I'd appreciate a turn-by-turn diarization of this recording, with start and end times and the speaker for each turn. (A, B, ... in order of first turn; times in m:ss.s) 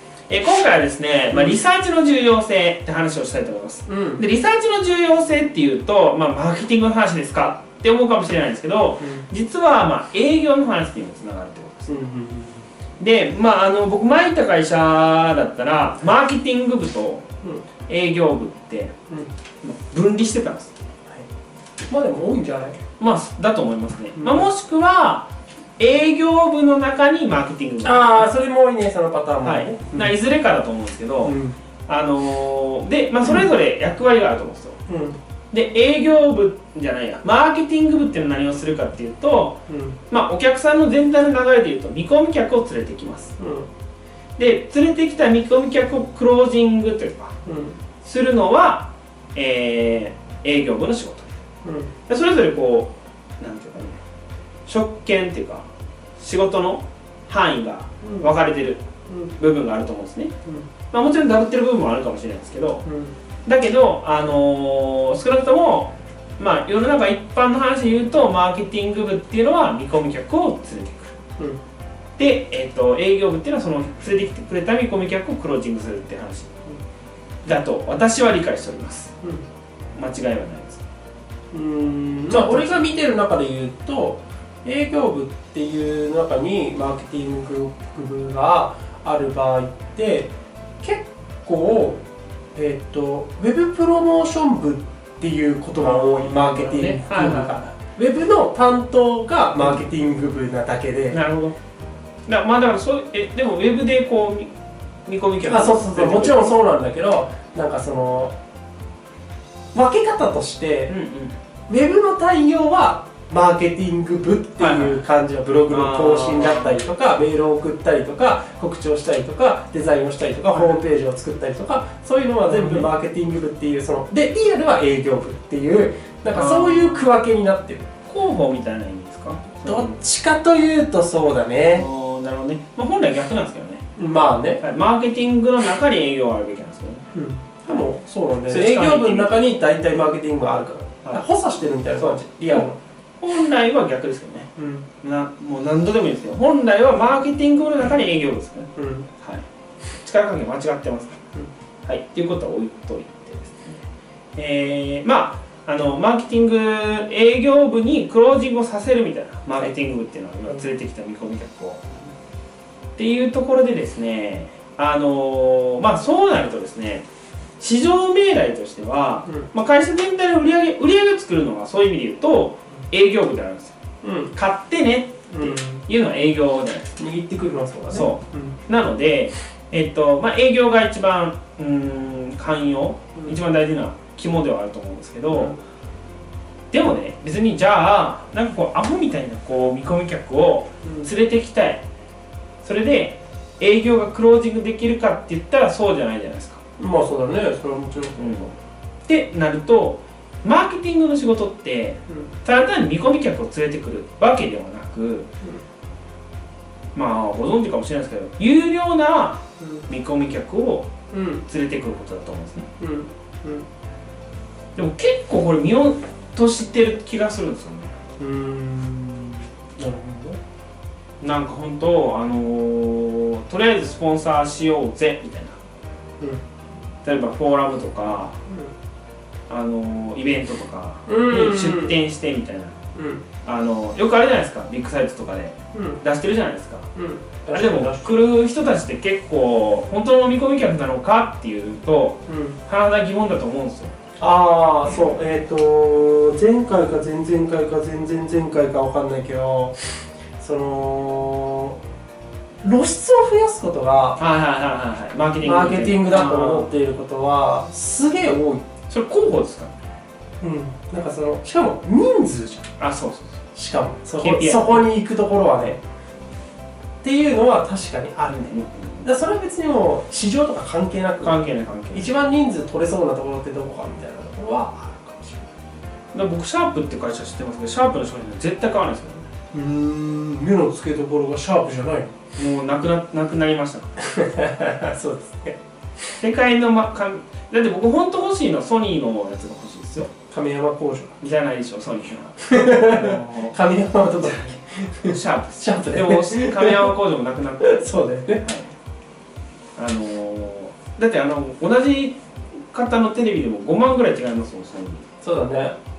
0:00.3-0:11.9 A
0:01.3-0:01.6 B
0:03.9-0:04.2 B
0:09.0-0:09.3 B
0:11.9-0:12.6 B
0:13.0-0:17.3 A
0:17.9-0:18.9 A
0:19.6-0:20.8 A
0:21.9-0:22.8 B
0:23.0-0:28.3 A
0:24.2-0:24.5 B
0:27.8-0:30.1 B
0:29.4-0:31.4 A
0:31.2-0:31.6 B
0:31.9-0:34.8 A
0:34.9-0:35.2 B
0:35.5-0:43.4 A
0:39.7-0:40.0 B
0:43.4-0:43.7 B
0:44.4-0:47.4 A
0:47.5-0:47.8 B
0:48.0-0:51.3 A
0:51.6-0:51.9 B
0:52.1-0:54.0 A
0:54.7-0:55.7 A
0:56.2-0:58.8 A
0:58.0-0:58.3 B
0:59.4-1:00.3 A
1:00.9-1:02.8 A
1:02.8-1:03.1 B
1:03.5-1:11.2 A
1:12.2-1:16.5 A
1:17.4-1:19.1 A
1:20.0-1:20.8 A
1:21.5-1:30.3 B
1:22.3-1:22.8 A
1:30.8-1:32.0 B
1:32.6-1:41.2 B
1:35.8-1:37.6 A
1:39.6-1:39.8 A
1:41.1-1:41.6 A
1:42.3-1:44.5 A
1:45.1-1:46.6 A
1:45.4-1:48.3 B
1:49.7-1:50.9 B
1:50.9-1:51.4 A
1:51.7-2:07.9 B
1:54.6-1:55.0 A
1:55.7-1:56.8 A
2:00.5-2:00.8 A
2:02.5-2:02.9 A
2:06.3-2:07.1 A
2:08.0-2:10.0 A
2:09.6-2:11.9 B
2:11.7-2:13.8 A
2:14.0-2:14.6 B
2:14.6-2:17.0 A
2:17.1-2:22.8 B
2:18.5-2:19.4 A
2:21.9-2:22.7 A
2:23.2-2:24.5 A
2:24.6-2:24.9 B
2:25.0-2:29.4 A
2:28.8-2:29.1 B
2:29.9-2:31.3 A
2:31.8-2:41.9 A
2:43.0-2:47.1 A
2:47.6-2:53.8 A
2:54.0-2:54.3 B
2:54.3-2:56.9 A
2:55.3-2:55.8 B
2:57.0-2:58.6 B
2:57.9-3:05.6 A
3:06.7-3:11.8 A
3:10.8-3:11.1 B
3:12.6-3:16.6 A
3:16.8-3:18.5 B
3:18.2-3:18.5 A
3:19.1-3:25.3 A
3:26.9-3:30.9 A
3:29.6-3:29.8 B
3:31.1-3:31.4 B
3:31.5-3:32.7 A
3:32.8-3:33.7 B
3:34.8-3:38.0 A
3:38.2-3:40.4 B
3:41.2-3:45.6 A
3:47.0-3:48.4 A
3:49.5-3:52.8 A
3:51.1-3:52.0 B
3:53.0-3:53.2 B
3:53.4-3:56.9 A
3:55.7-3:56.0 B
3:57.0-3:58.2 B
3:57.5-4:04.0 A
4:02.3-4:02.6 B
4:04.2-4:09.8 B
4:10.4-4:11.8 B
4:12.6-4:14.2 B
4:14.2-4:16.7 A
4:15.4-4:18.6 B
4:18.9-4:19.8 A
4:20.4-4:22.6 B
4:22.8-4:23.4 A
4:23.6-4:25.8 B
4:24.2-4:24.8 A
4:27.0-4:28.4 B
4:28.2-4:29.1 A
4:29.0-4:31.4 B
4:31.2-4:32.1 A
4:31.9-4:35.5 B
4:36.1-4:39.3 A
4:39.5-4:42.1 B
4:42.4-4:44.0 A
4:44.0-4:45.6 B
4:46.2-4:50.1 A
4:50.3-4:51.2 B
4:51.2-4:53.6 A
4:52.5-4:56.9 B
4:54.2-4:57.9 A
4:57.6-4:58.4 B
4:58.4-4:58.7 A
4:59.8-5:05.1 A
5:05.2-5:05.8 B